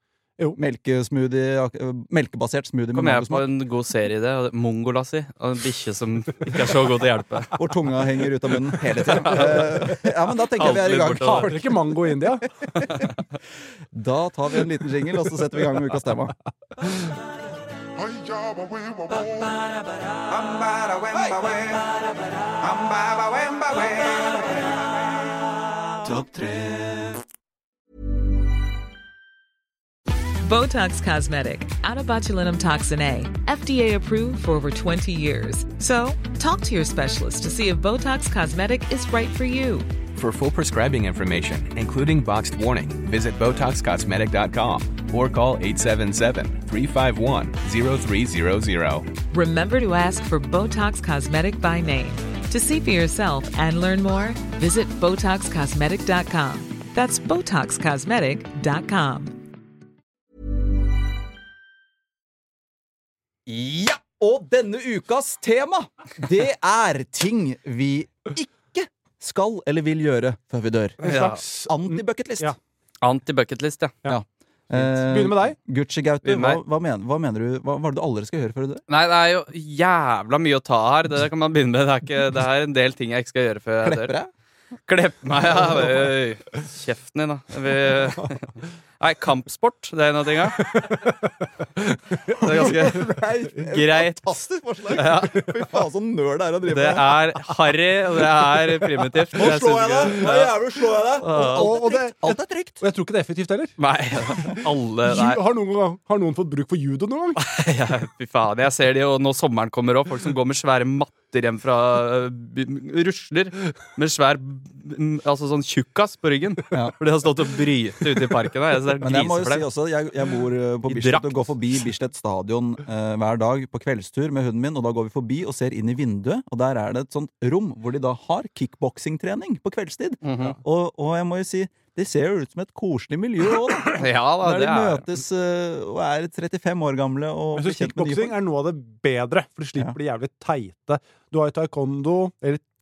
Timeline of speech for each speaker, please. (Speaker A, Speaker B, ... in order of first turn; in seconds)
Speaker A: 0.6-3.5, 7.5-11.6, 13.9-16.3, 20.3-21.9, 22.6-24.6, 26.0-27.2, 63.5-71.0, 71.6-72.5, 74.1-78.8, 83.8-84.3, 92.4-97.3, 99.3-102.8, 119.0-138.4
Speaker B: 2.9-7.5, 9.2-9.6, 10.6-11.6, 71.0-71.4, 73.0-73.9, 76.2-76.6, 78.9-84.1, 84.9-90.9, 92.4-94.2, 94.9-95.5, 96.7-100.5, 101.1-101.7, 103.8-105.4, 107.4-119.6, 120.9-121.4, 130.2-130.6, 133.9-135.1
Speaker C: 9.1-9.6, 11.2-12.4, 71.0-72.5, 74.0-75.5, 90.6-92.7, 101.3-103.8, 104.5-107.4, 137.5-142.6
Speaker D: 30.4-39.9, 49.3-59.4
Speaker E: 40.1-49.1